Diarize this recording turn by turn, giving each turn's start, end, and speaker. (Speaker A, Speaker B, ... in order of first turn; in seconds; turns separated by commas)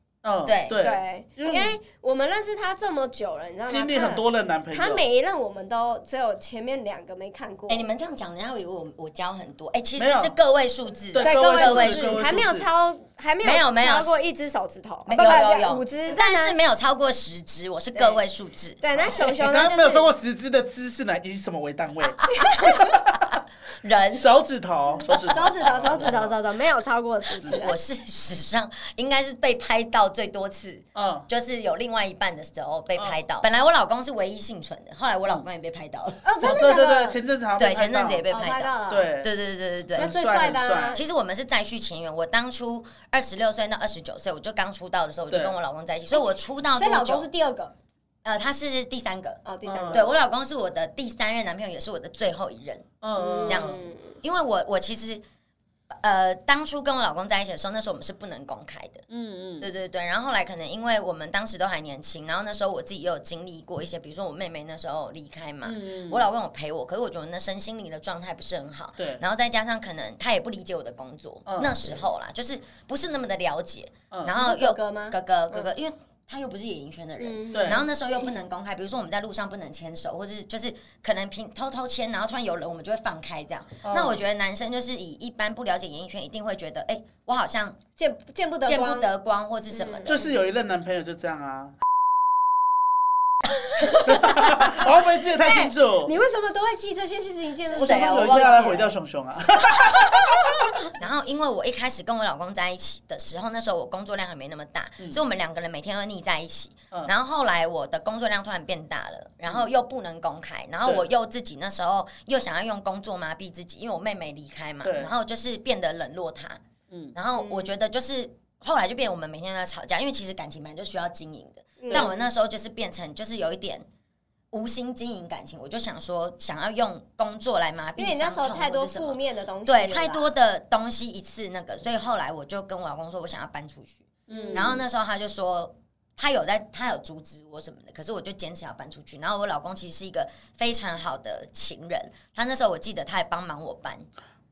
Speaker A: 0.2-1.8, Speaker B: 0.5-0.8, Speaker C: 0.7-7.9, Speaker A: 3.7-5.0, Speaker B: 7.7-12.3, Speaker A: 9.9-10.3, Speaker A: 11.1-12.7, Speaker C: 11.2-16.6, Speaker B: 13.4-14.2, Speaker B: 15.1-18.8, Speaker C: 17.9-18.2, Speaker C: 18.8-20.1, Speaker A: 19.3-23.0, Speaker B: 22.2-24.4, Speaker A: 24.1-26.4, Speaker B: 25.1-26.1, Speaker C: 25.3-27.8, Speaker A: 27.4-27.7, Speaker B: 27.4-36.3, Speaker A: 30.9-31.3, Speaker C: 36.2-37.2, Speaker A: 36.4-38.3, Speaker B: 37.6-40.1, Speaker C: 38.3-39.1, Speaker A: 38.9-39.3, Speaker A: 39.9-41.0, Speaker C: 40.0-41.0, Speaker B: 40.9-47.2, Speaker A: 45.3-45.5, Speaker C: 46.7-47.7, Speaker B: 48.2-52.9, Speaker C: 49.4-50.1, Speaker A: 49.6-50.1, Speaker A: 53.0-53.8, Speaker C: 53.1-54.1, Speaker B: 53.4-55.2, Speaker B: 56.0-59.0, Speaker A: 59.1-59.7, Speaker B: 59.6-87.8, Speaker A: 65.6-66.3, Speaker A: 69.0-69.2, Speaker A: 71.5-72.0, Speaker C: 74.3-75.7, Speaker C: 77.2-77.8, Speaker A: 77.5-77.8, Speaker A: 83.8-84.2, Speaker C: 88.0-89.1, Speaker B: 88.6-90.2, Speaker C: 89.7-90.3, Speaker A: 90.0-91.8, Speaker A: 94.0-96.1, Speaker C: 95.2-98.9, Speaker A: 97.7-100.4, Speaker B: 97.7-98.9, Speaker B: 99.4-99.9, Speaker B: 100.9-116.6, Speaker A: 114.8-115.1, Speaker B: 117.1-123.8, Speaker C: 117.4-117.7, Speaker C: 121.8-122.1, Speaker B: 124.5-144.1, Speaker C: 128.0-130.3, Speaker A: 134.3-134.8, Speaker C: 134.3-134.8